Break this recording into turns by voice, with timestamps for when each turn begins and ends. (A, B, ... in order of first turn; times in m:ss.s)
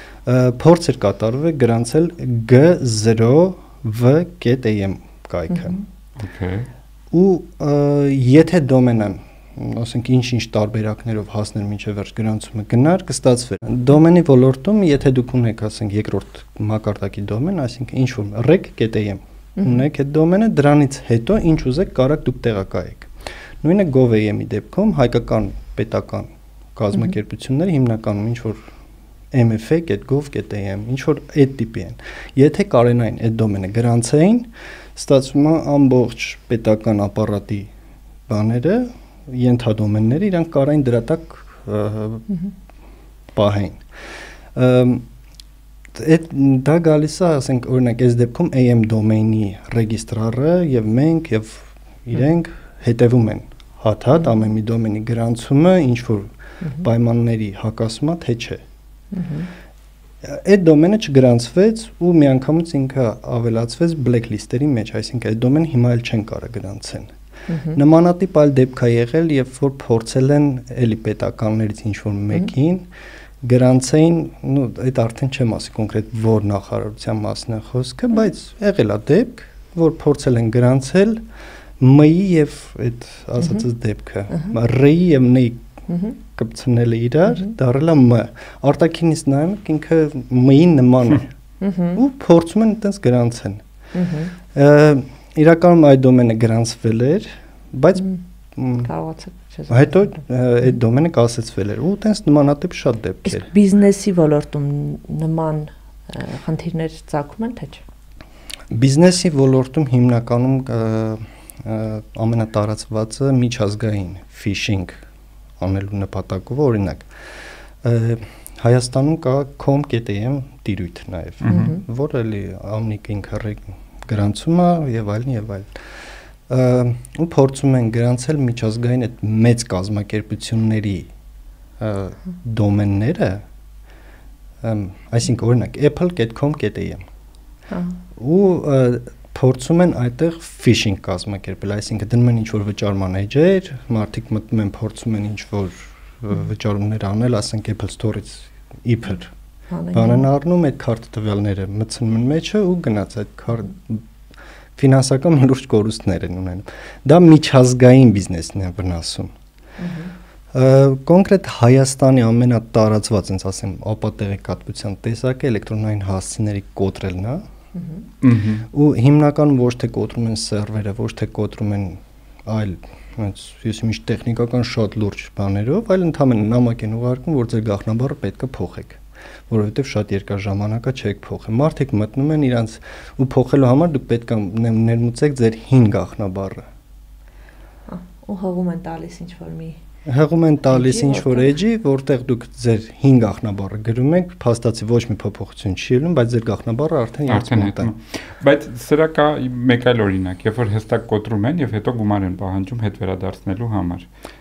0:00.2-0:05.8 A
0:05.5-0:05.8 B
0:06.2-0:06.7 C
0:07.1-0:28.7 A
0:29.3-0:37.7 A
0:38.3-0:42.3 A
0:43.3-0:45.1 A
0:45.9-0:58.6 A
0:59.1-0:59.5 B
1:00.2-1:07.1 A
1:07.5-1:07.8 B
1:07.7-1:12.9 A
1:13.4-1:21.2 A
1:21.8-1:31.3 A
1:25.9-1:26.2 B
1:31.6-1:32.0 B
1:32.0-1:33.6 A
1:33.9-1:34.3 B
1:34.5-1:38.9 A
1:38.8-1:40.0 B
1:39.7-1:43.5 A
1:43.3-1:47.8 B
1:48.7-1:55.0 A
1:55.6-2:11.1 A
2:01.4-2:01.7 C
2:01.5-2:01.8 B
2:11.8-2:13.4 A
2:14.6-2:17.0 A
2:17.7-2:18.0 B
2:18.2-2:29.3 A
2:29.7-2:30.2 B
2:29.9-2:34.0 A
2:34.8-2:39.3 A
2:39.8-2:40.1 B
2:40.5-2:47.4 A
2:47.8-2:48.0 B
2:48.2-2:48.6 C
2:48.7-3:06.6 A
3:07.9-3:09.8 B
3:10.1-3:17.9 A
3:10.7-3:11.6 B
3:17.3-3:24.1 C